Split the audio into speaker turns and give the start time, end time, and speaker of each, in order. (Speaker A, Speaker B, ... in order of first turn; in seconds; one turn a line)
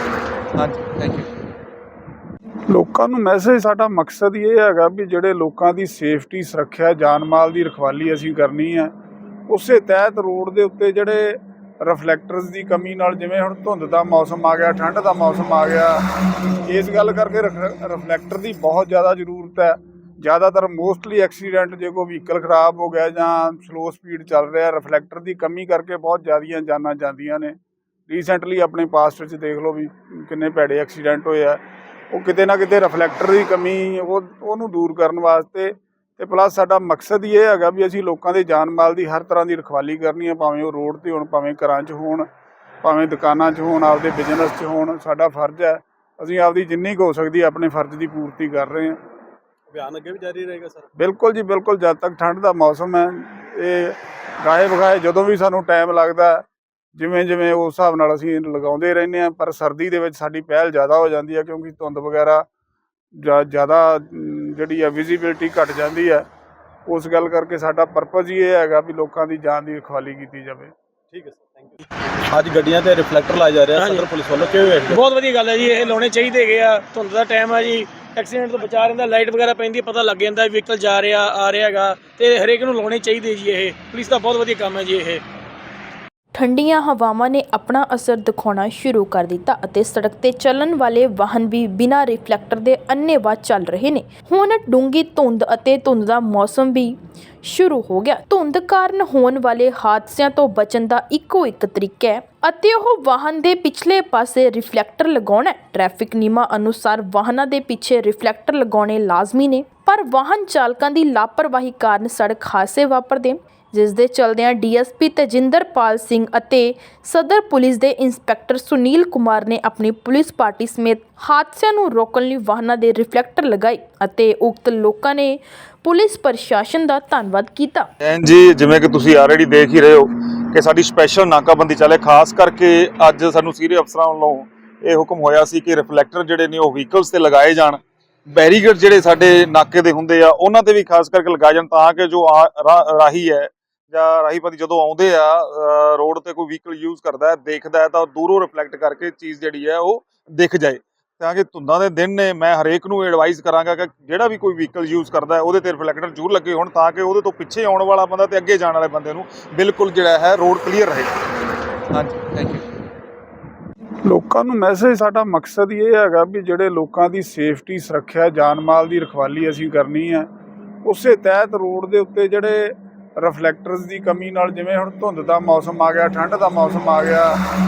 Speaker A: 0.6-1.3
Speaker B: 2.7-8.9
Speaker B: 9.5-16.0
Speaker B: 16.7-27.6
Speaker B: 28.1-42.3
Speaker B: 42.8-49.0
Speaker C: 49.7-50.9
Speaker B: 51.0-56.5
Speaker B: 57.0-62.5
Speaker B: 63.2-66.3
Speaker B: 66.9-70.7
Speaker C: 71.1-75.0
Speaker D: 73.8-74.1
Speaker D: 74.9-85.2
Speaker E: 86.3-127.9
Speaker A: 128.0-137.8
Speaker A: 138.3-161.1
Speaker A: 161.9-162.7
Speaker B: 164.1-170.3
Speaker B: 170.8-177.4